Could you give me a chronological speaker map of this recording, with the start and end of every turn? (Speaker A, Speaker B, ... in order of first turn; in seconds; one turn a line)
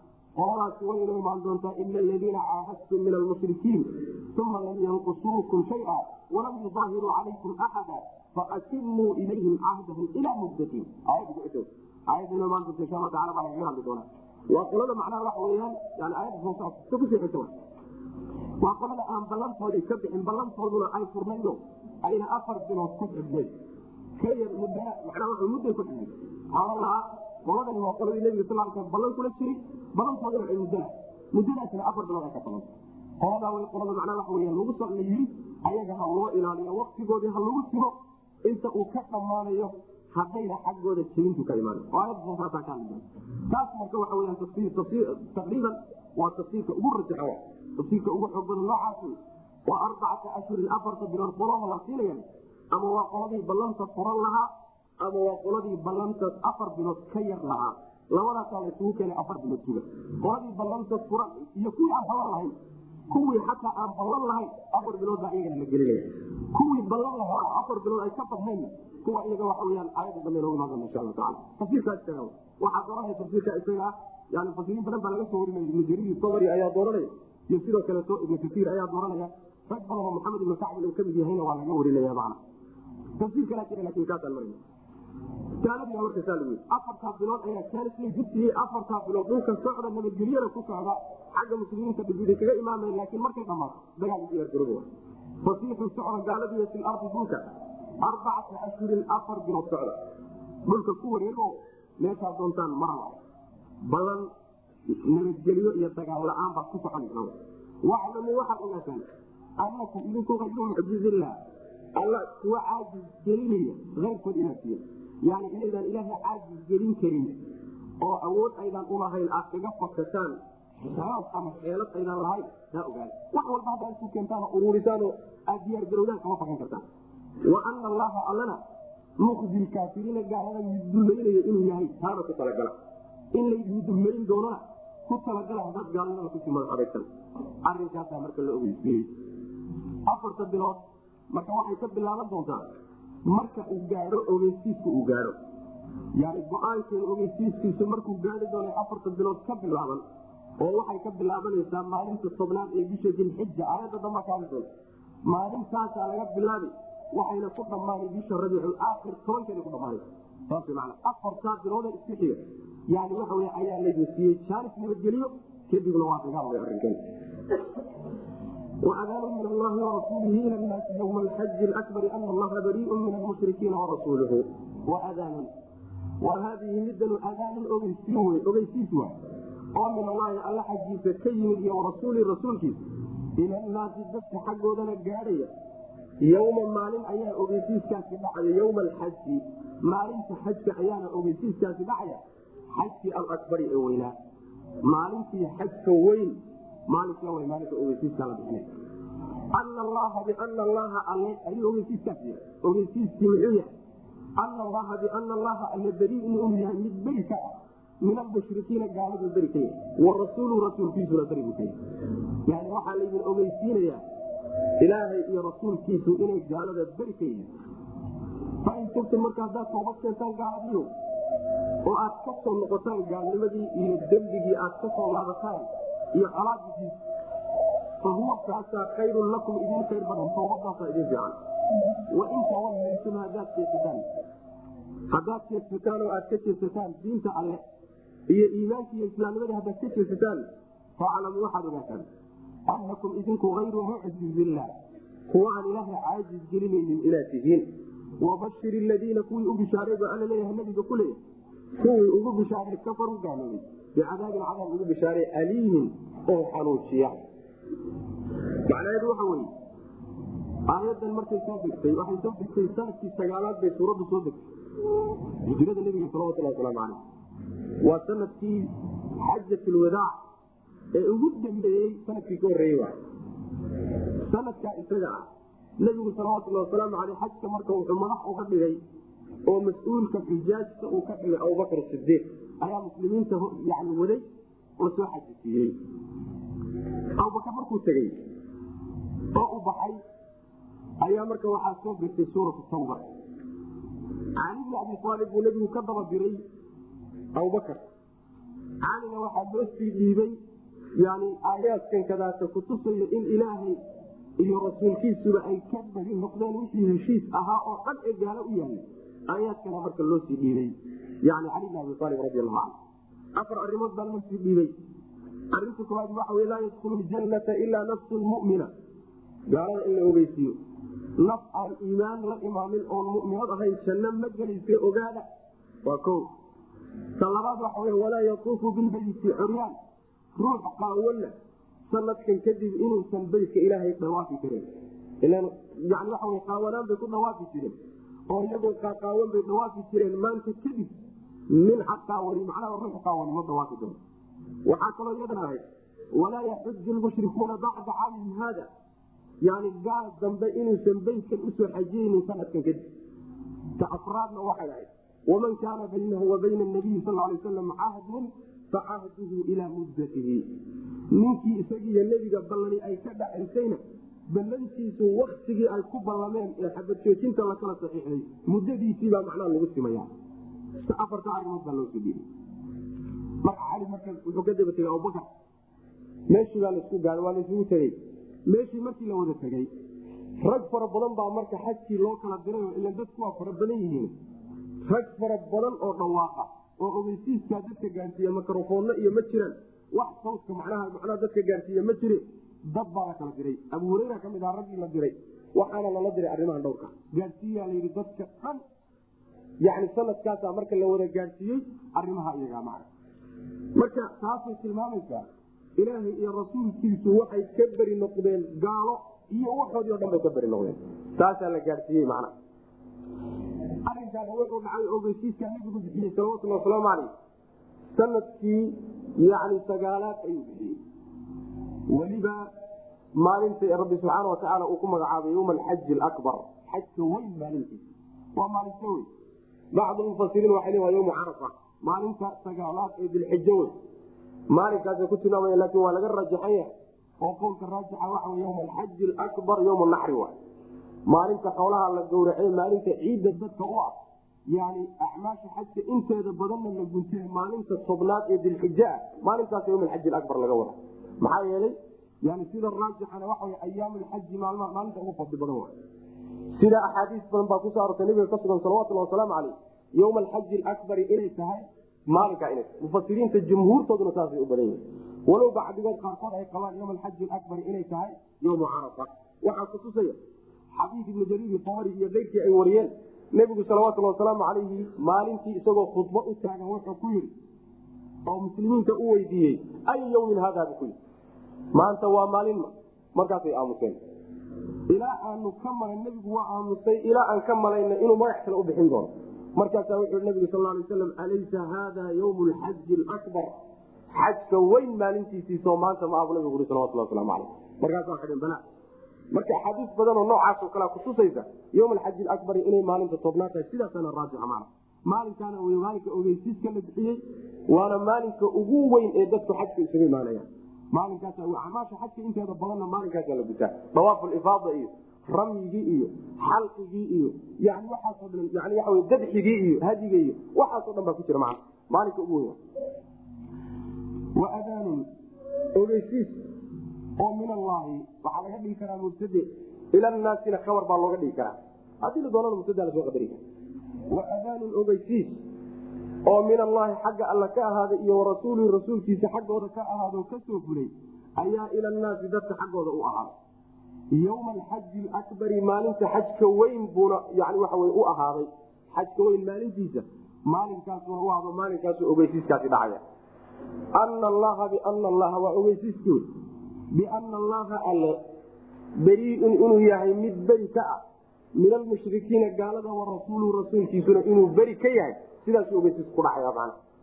Speaker A: 0.4-17.5
Speaker A: 18.6-23.5
Speaker A: 24.2-62.6
Speaker A: 63.1-82.4
Speaker A: 83.2-84.6
Speaker A: 85.6-94.9
Speaker A: 95.4-97.5
Speaker A: 98.0-100.0
Speaker A: 100.7-103.2
Speaker A: 103.8-104.3
Speaker A: 104.9-109.1
Speaker A: 109.6-111.4
Speaker A: 112.0-117.4
Speaker A: 118.0-126.8
Speaker A: 127.4-128.6
Speaker A: 129.2-132.7
Speaker A: 133.3-137.1
Speaker A: 137.6-139.1
Speaker A: 140.1-142.7
Speaker A: 143.2-145.3
Speaker A: 146.2-150.0
Speaker A: 150.6-154.7
Speaker A: 155.2-167.0
Speaker A: 168.8-175.5
Speaker A: 176.2-179.2
Speaker A: 179.7-182.8
Speaker A: 183.4-185.5
Speaker A: 186.2-192.2
Speaker A: 192.7-194.2
Speaker A: 194.8-198.7
Speaker A: 199.5-203.7
Speaker A: 204.4-211.8
Speaker A: 212.4-214.0
Speaker A: 214.8-217.5
Speaker A: 218.6-220.9
Speaker A: 221.8-226.9
Speaker A: 228.0-231.3
Speaker A: 232.1-234.0
Speaker A: 235.1-237.6
Speaker A: 238.3-240.5
Speaker A: 241.0-242.1
Speaker A: 242.7-244.7
Speaker A: 245.3-251.2
Speaker A: 251.8-257.2
Speaker A: 258.7-259.5
Speaker A: 260.7-264.4
Speaker A: 265.4-267.0
Speaker A: 267.8-270.1
Speaker A: 270.9-272.9
Speaker A: 274.2-275.3
Speaker A: 275.8-278.8
Speaker A: 279.5-284.2
Speaker A: 284.8-285.8
Speaker A: 287.2-288.2
Speaker A: 289.3-290.0
Speaker A: 291.0-293.0
Speaker A: 294.4-296.4
Speaker A: 297.4-297.8
Speaker A: 298.8-300.4
Speaker A: 301.0-303.8
Speaker A: 304.4-312.7
Speaker A: 313.4-314.7
Speaker A: 315.5-318.7
Speaker A: 319.5-320.6
Speaker A: 321.2-325.3
Speaker A: 325.8-326.3
Speaker A: 327.2-329.8
Speaker A: 330.4-331.3
Speaker A: 331.9-334.7
Speaker A: 335.2-337.8
Speaker A: 338.3-340.9
Speaker A: 341.5-344.0
Speaker A: 344.6-348.7
Speaker A: 349.4-352.9
Speaker A: 353.8-360.5
Speaker A: 361.1-370.1
Speaker A: 370.8-372.3
Speaker A: 373.4-375.3
Speaker A: 376.3-379.7
Speaker A: 380.4-384.1
Speaker A: 384.8-398.6
Speaker A: 399.6-402.9
Speaker A: 403.8-405.3
Speaker A: 405.8-412.3
Speaker A: 413.9-417.1
Speaker A: 417.9-420.8
Speaker A: 421.9-422.5
Speaker A: 423.1-427.9
Speaker A: 428.4-429.1
Speaker A: 429.7-433.7
Speaker A: 434.5-440.4
Speaker A: 441.1-443.9
Speaker A: 444.5-455.7
Speaker A: 456.6-470.2
Speaker A: 470.7-477.3
Speaker A: 478.3-481.0
Speaker A: 481.7-484.0
Speaker A: 484.9-493.5
Speaker A: 494.1-498.6
Speaker A: 499.3-522.6
Speaker A: 524.4-525.1
Speaker A: 525.8-526.4
Speaker A: 527.2-533.4
Speaker A: 534.1-535.4
Speaker A: 536.3-543.3
Speaker A: 544.1-553.0
Speaker A: 553.9-556.3
Speaker A: 556.9-558.2
Speaker A: 559.0-561.0
Speaker A: 561.6-566.8